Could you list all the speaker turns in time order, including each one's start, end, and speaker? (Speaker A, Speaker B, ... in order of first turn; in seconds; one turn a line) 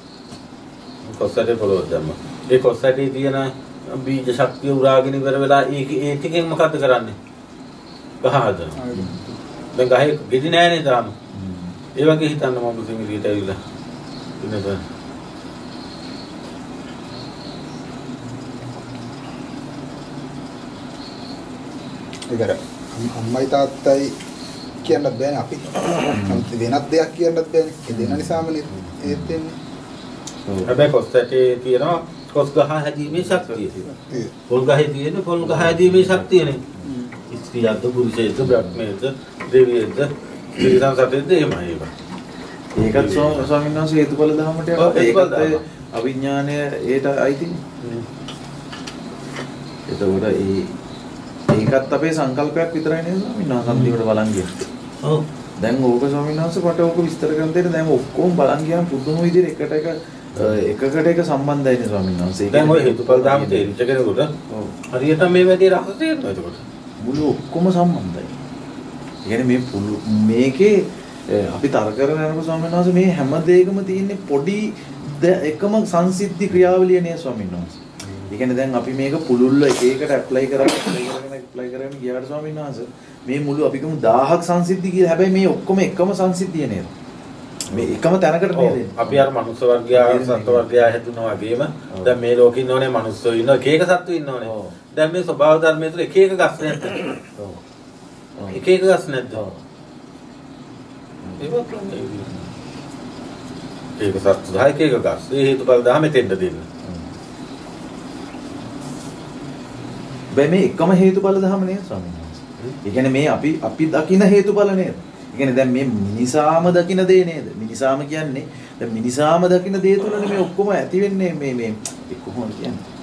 Speaker A: 1.0-7.2
Speaker A: 8.2-8.8
Speaker B: 8.8-9.3
Speaker C: 8.9-9.2
Speaker A: 9.7-11.1
Speaker C: 11.3-11.8
Speaker A: 11.9-13.6
Speaker A: 14.4-14.8
Speaker B: 22.3-24.1
Speaker B: 24.8-29.5
Speaker C: 26.1-26.5
Speaker C: 27.9-28.4
Speaker C: 29.0-29.4
Speaker C: 30.4-30.7
Speaker A: 30.6-33.7
Speaker C: 33.1-33.9
Speaker B: 33.9-34.3
Speaker A: 34.5-36.6
Speaker C: 35.4-36.9
Speaker B: 36.8-37.1
Speaker A: 37.3-41.9
Speaker C: 38.4-38.8
Speaker C: 42.8-47.6
Speaker A: 42.9-43.5
Speaker A: 44.8-45.6
Speaker C: 49.9-50.7
Speaker C: 51.5-54.5
Speaker A: 53.6-54.0
Speaker C: 55.6-63.7
Speaker A: 60.3-60.6
Speaker A: 62.5-64.3
Speaker C: 64.5-64.8
Speaker A: 64.9-66.6
Speaker C: 67.0-68.3
Speaker C: 69.2-86.9
Speaker A: 78.0-78.3
Speaker C: 87.7-89.3
Speaker A: 88.5-97.0
Speaker C: 89.9-90.7
Speaker C: 91.9-92.2
Speaker C: 94.4-94.8
Speaker C: 97.4-97.6
Speaker C: 98.4-98.6
Speaker A: 98.5-99.4
Speaker C: 99.3-99.6
Speaker C: 101.2-101.5
Speaker A: 101.4-102.3
Speaker A: 104.0-106.7
Speaker C: 106.8-107.2
Speaker C: 110.3-122.8